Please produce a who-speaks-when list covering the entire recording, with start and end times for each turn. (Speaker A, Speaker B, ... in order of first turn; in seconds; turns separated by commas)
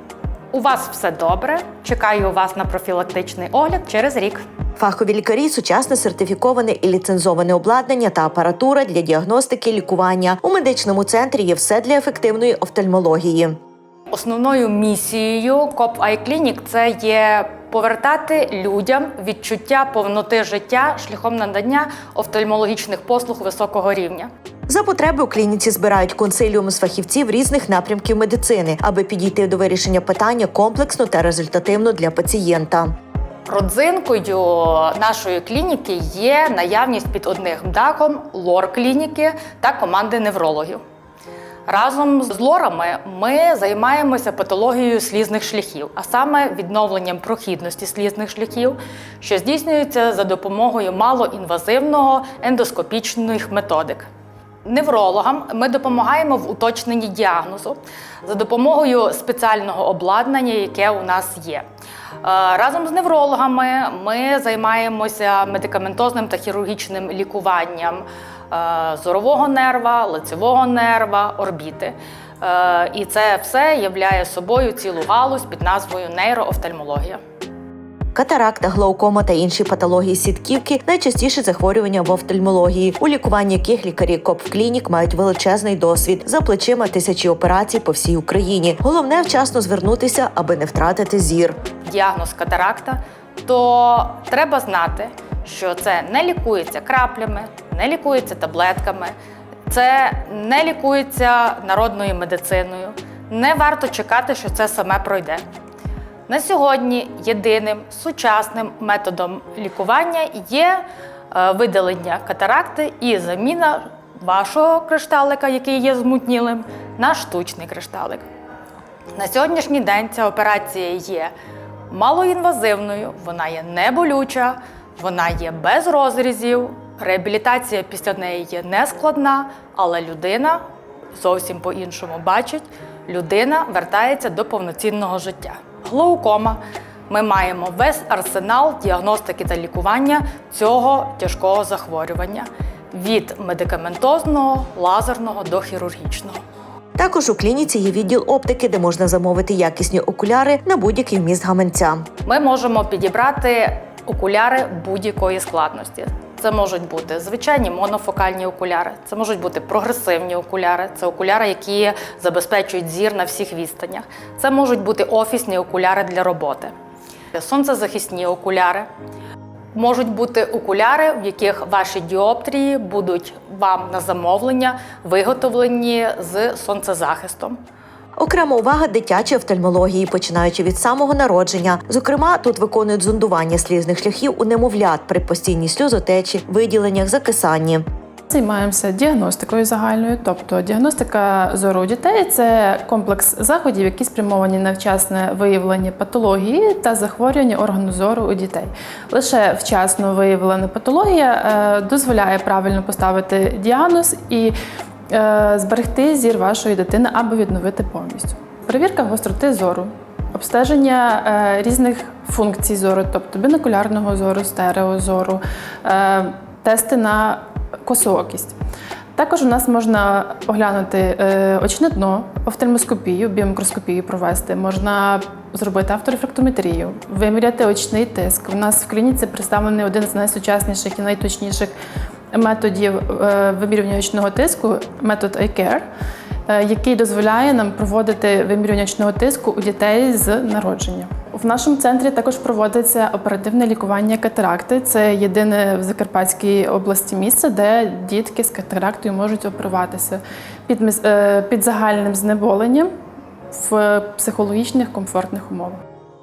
Speaker A: 0.5-4.4, Speaker B: 4.8-13.6, Speaker A: 14.1-24.3, Speaker B: 24.7-32.9, Speaker A: 33.5-40.8, Speaker A: 41.7-54.1, Speaker A: 54.6-61.6, Speaker A: 62.2-77.2, Speaker B: 78.2-91.6, Speaker A: 91.8-99.1, Speaker A: 99.7-105.4, Speaker A: 106.3-118.2, Speaker A: 119.2-121.3, Speaker A: 121.9-130.6, Speaker A: 131.1-146.4, Speaker B: 147.0-152.1, Speaker A: 152.2-166.7, Speaker A: 167.3-168.9, Speaker A: 169.7-177.6, Speaker B: 178.2-187.8, Speaker C: 188.3-204.6, Speaker C: 205.1-218.6, Speaker C: 219.2-231.7, Speaker C: 232.3-235.8, Speaker C: 236.5-252.9, Speaker C: 253.5-255.8